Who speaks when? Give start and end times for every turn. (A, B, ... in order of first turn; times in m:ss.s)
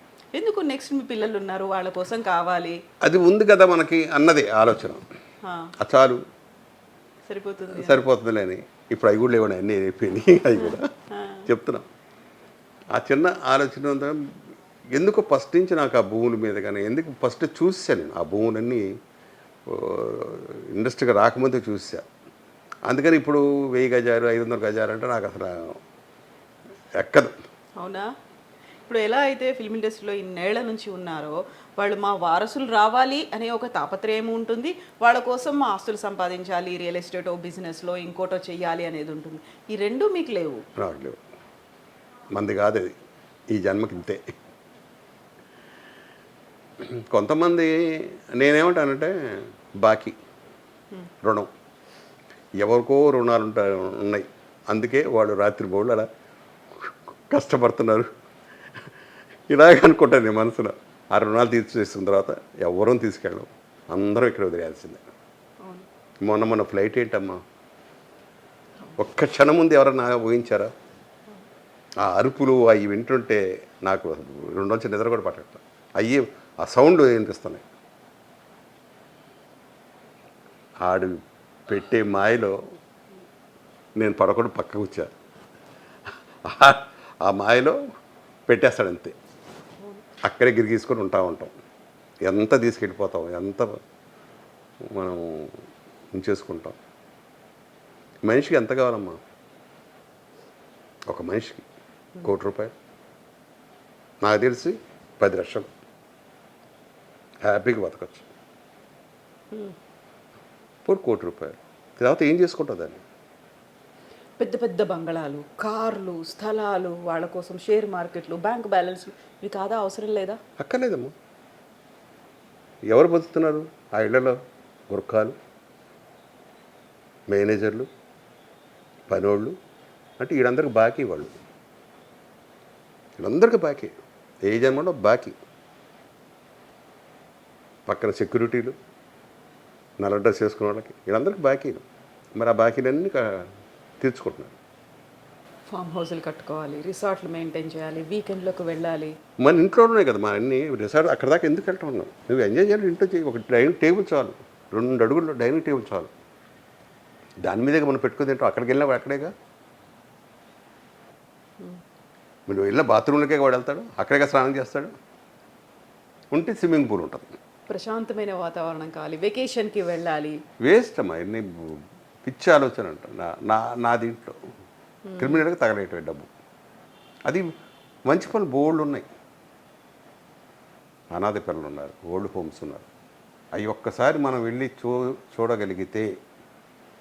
0:00.3-0:02.8 A
0:03.0-0:05.0 B
0:05.4-0:05.7 A
0:05.8-0:06.2 B
0:07.2-0:08.1 A
0:07.7-0:10.9 B
0:10.6-0:11.5 A
0:11.5-0:11.8 B
0:12.9-0:14.2 B
0:14.9-0:18.8 B
0:19.7-0:22.0 B
0:22.9-0:25.8 B
0:27.0-0:27.3 B
0:27.8-0:28.1 A
0:28.8-0:40.6 A
0:40.8-0:41.2 B
0:42.3-0:42.9 B
0:43.5-0:44.2 B
0:46.8-0:50.2 B
0:51.2-0:51.5 B
0:52.6-0:56.1 B
0:56.8-0:58.1 B
0:59.5-1:05.0 B
1:05.6-1:05.9 A
1:06.2-1:07.4 B
1:09.0-1:10.7 B
1:12.0-1:17.6 B
1:20.8-1:22.6 B
1:24.0-1:25.1 B
1:26.4-1:27.8 B
1:28.5-1:29.1 B
1:30.2-1:31.5 B
1:32.2-1:33.8 B
1:34.9-1:35.5 B
1:36.1-1:36.8 B
1:38.2-1:39.2 B
1:41.1-1:41.6 B
1:42.2-1:42.7 B
1:44.2-1:45.7 B
1:47.4-1:48.2 B
1:50.8-1:53.0 B
1:54.4-2:00.4 A
2:00.6-2:01.1 B
2:02.9-2:04.4 B
2:04.9-2:05.3 B
2:07.3-2:07.9 B
2:09.1-2:09.5 B
2:10.2-2:11.3 B
2:13.2-2:13.9 B
2:14.4-2:15.4 B
2:17.9-2:18.7 B
2:20.0-2:21.8 B
2:22.4-2:23.5 B
2:24.0-2:24.6 B
2:25.7-2:29.2 A
2:29.4-2:36.1 B
2:37.4-2:39.3 B
2:42.5-2:44.9 B
2:46.3-2:47.3 B
2:47.7-2:50.4 A
2:50.6-2:54.4 B
2:55.1-2:55.4 A
2:55.2-2:56.3 B
2:58.1-2:59.0 B
3:01.1-3:02.9 B
3:03.5-3:06.1 B